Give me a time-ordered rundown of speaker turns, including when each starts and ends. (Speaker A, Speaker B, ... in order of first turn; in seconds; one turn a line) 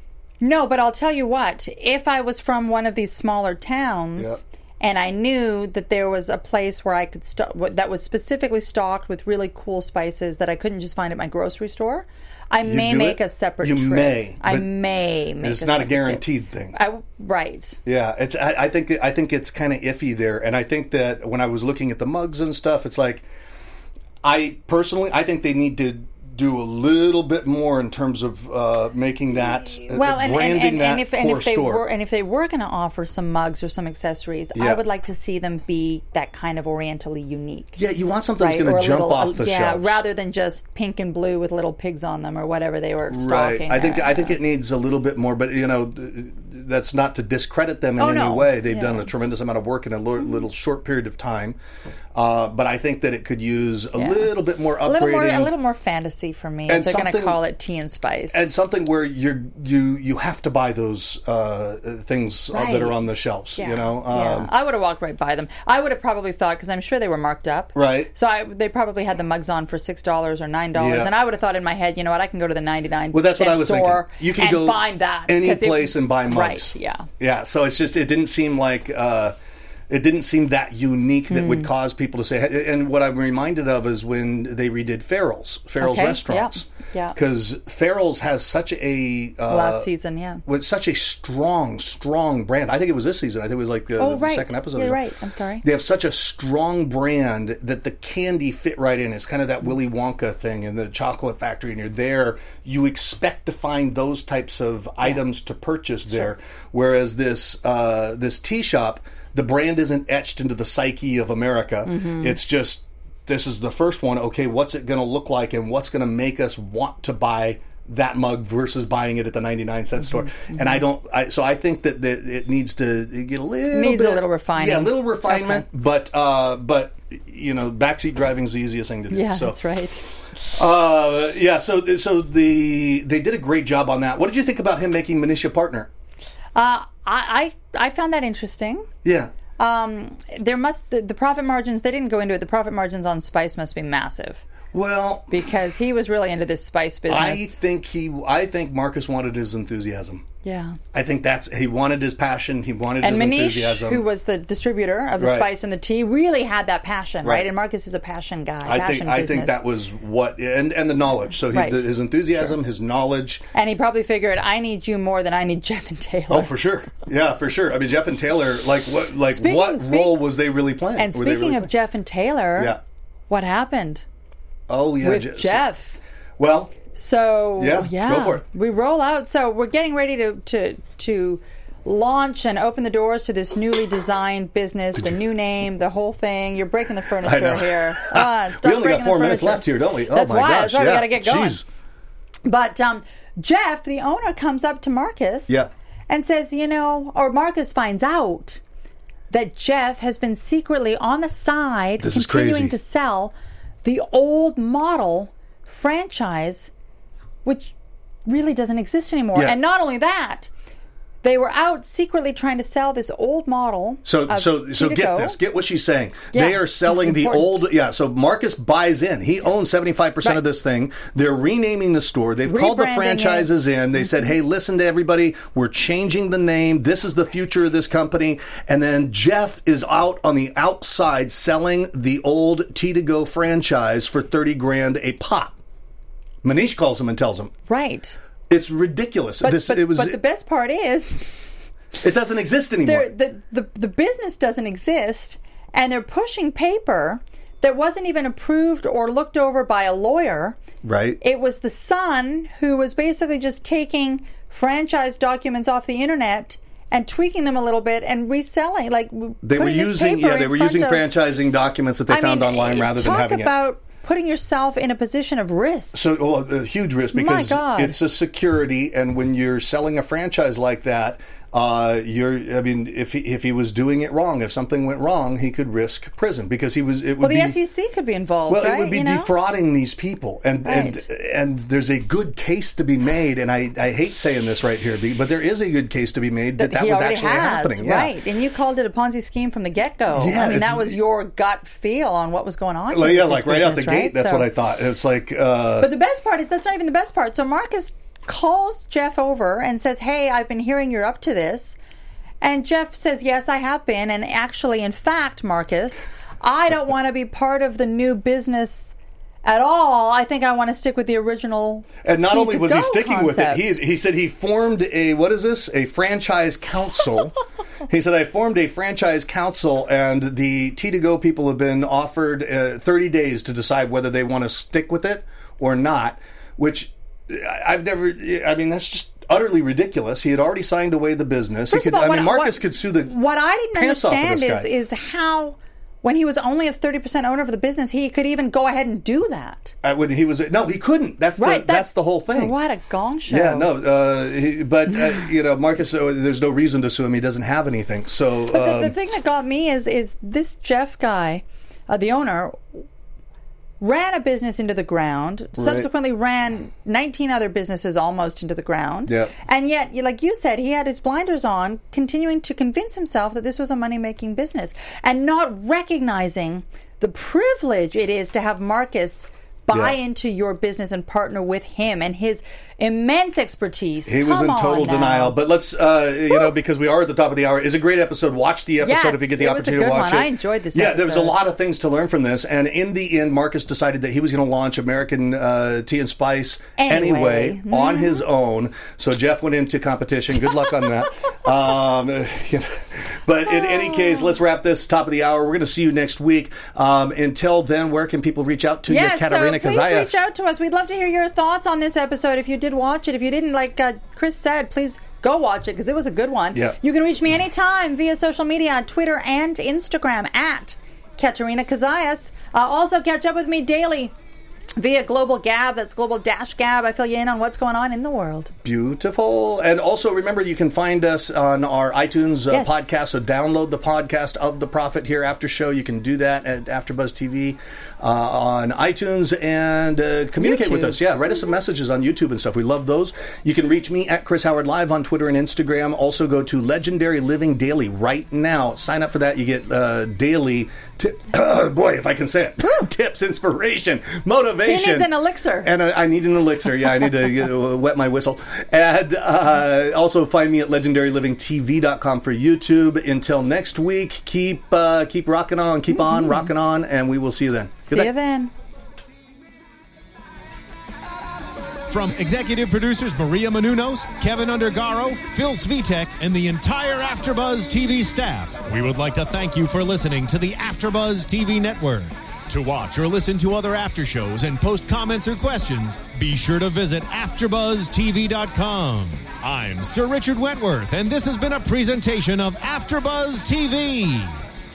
Speaker A: 0.4-17.8
Speaker B: 12.6-14.7
Speaker B: 15.4-16.8
Speaker B: 17.8-23.2
Speaker B: 24.2-31.8
Speaker A: 29.9-37.8
Speaker B: 34.5-34.8
Speaker B: 37.8-40.0
Speaker A: 38.4-44.4
Speaker B: 43.1-51.6
Speaker A: 48.0-49.1
Speaker B: 52.1-55.5
Speaker A: 54.0-58.5
Speaker B: 56.7-57.4
Speaker B: 58.3-64.5
Speaker A: 62.5-63.0
Speaker A: 63.6-77.1
Speaker B: 67.7-68.1
Speaker B: 70.8-71.1
Speaker B: 73.1-79.3
Speaker B: 79.9-89.9
Speaker A: 81.3-81.7
Speaker A: 85.8-87.2
Speaker A: 89.5-90.4
Speaker B: 90.4-95.0
Speaker A: 94.0-95.6
Speaker B: 95.6-129.6
Speaker A: 111.9-112.3
Speaker A: 123.7-125.7
Speaker A: 129.1-130.0
Speaker B: 130.5-135.9
Speaker A: 136.5-138.9
Speaker B: 139.0-139.3
Speaker A: 139.6-144.4
Speaker B: 144.7-145.3
Speaker A: 145.3-147.5
Speaker B: 147.1-150.2
Speaker A: 150.4-150.8
Speaker B: 150.9-154.0
Speaker A: 153.0-159.6
Speaker B: 155.2-155.5
Speaker B: 158.6-163.4
Speaker A: 161.5-161.9
Speaker A: 163.5-166.5
Speaker B: 166.3-171.7
Speaker A: 169.3-172.8
Speaker A: 173.3-174.0
Speaker B: 174.7-175.6
Speaker A: 175.0-176.0
Speaker B: 176.4-176.8
Speaker A: 176.9-191.6
Speaker B: 177.6-178.4
Speaker B: 187.2-191.6
Speaker A: 192.4-195.6
Speaker A: 196.1-198.6
Speaker A: 199.3-206.7
Speaker B: 202.0-202.7
Speaker A: 207.4-207.7
Speaker A: 208.2-210.5
Speaker A: 211.2-215.4
Speaker B: 214.0-235.5
Speaker A: 216.3-217.6
Speaker A: 222.4-223.7
Speaker B: 236.4-237.5
Speaker A: 237.7-238.2
Speaker B: 238.5-240.2
Speaker A: 239.4-241.2
Speaker B: 242.0-243.1
Speaker A: 242.8-250.6
Speaker B: 250.8-251.2
Speaker A: 251.2-261.1
Speaker B: 259.4-263.5
Speaker A: 262.1-266.0
Speaker B: 265.9-277.6
Speaker A: 267.1-268.0
Speaker A: 277.2-279.3
Speaker B: 278.5-288.1
Speaker A: 280.6-281.0
Speaker A: 286.6-294.5
Speaker B: 290.1-291.0
Speaker B: 292.9-295.9
Speaker A: 295.8-301.8
Speaker A: 302.4-313.8
Speaker B: 312.0-333.1
Speaker A: 331.7-339.7
Speaker B: 333.7-334.7
Speaker B: 339.8-342.5
Speaker A: 341.4-343.7
Speaker B: 343.3-348.9
Speaker A: 348.5-352.8
Speaker A: 353.8-375.4
Speaker B: 355.6-355.9
Speaker B: 359.1-359.3
Speaker B: 374.1-400.2
Speaker A: 378.8-381.4
Speaker A: 386.8-388.2
Speaker A: 398.9-414.1
Speaker A: 414.8-418.5
Speaker B: 418.6-445.1
Speaker A: 422.5-422.9
Speaker A: 430.4-431.0
Speaker A: 444.6-445.7
Speaker B: 445.6-458.1
Speaker A: 456.1-456.4
Speaker A: 457.9-458.5
Speaker C: 461.9-484.4